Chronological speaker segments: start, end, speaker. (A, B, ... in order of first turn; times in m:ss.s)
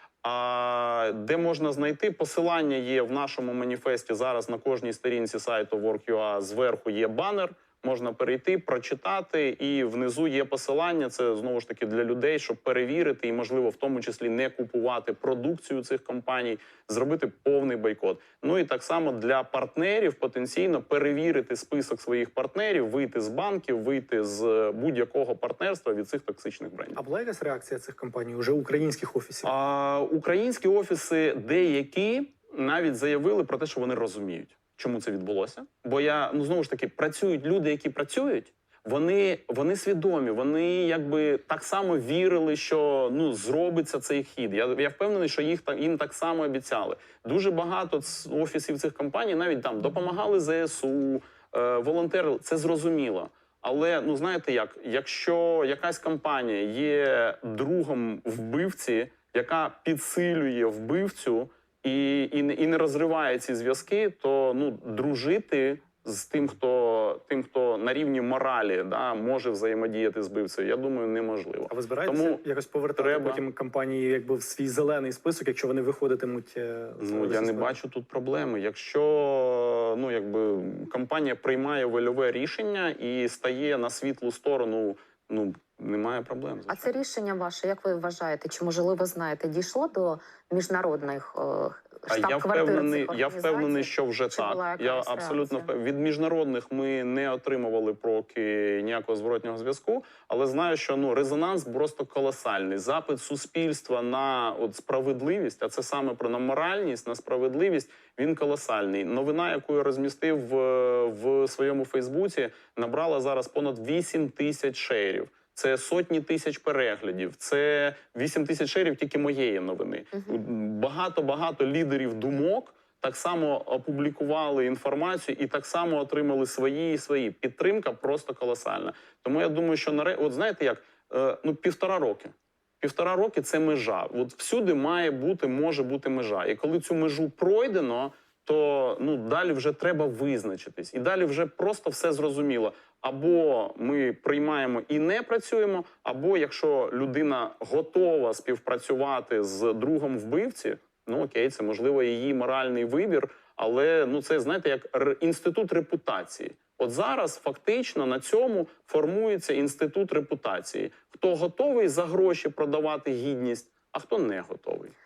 0:00.2-0:27.0 A
0:27.0-0:29.5 B
0:29.4-1:12.4 A
1:11.7-1:17.7 B
1:13.0-1:13.4 A
1:17.0-1:26.9 A
1:26.7-1:35.7 C
1:32.1-2:44.9 A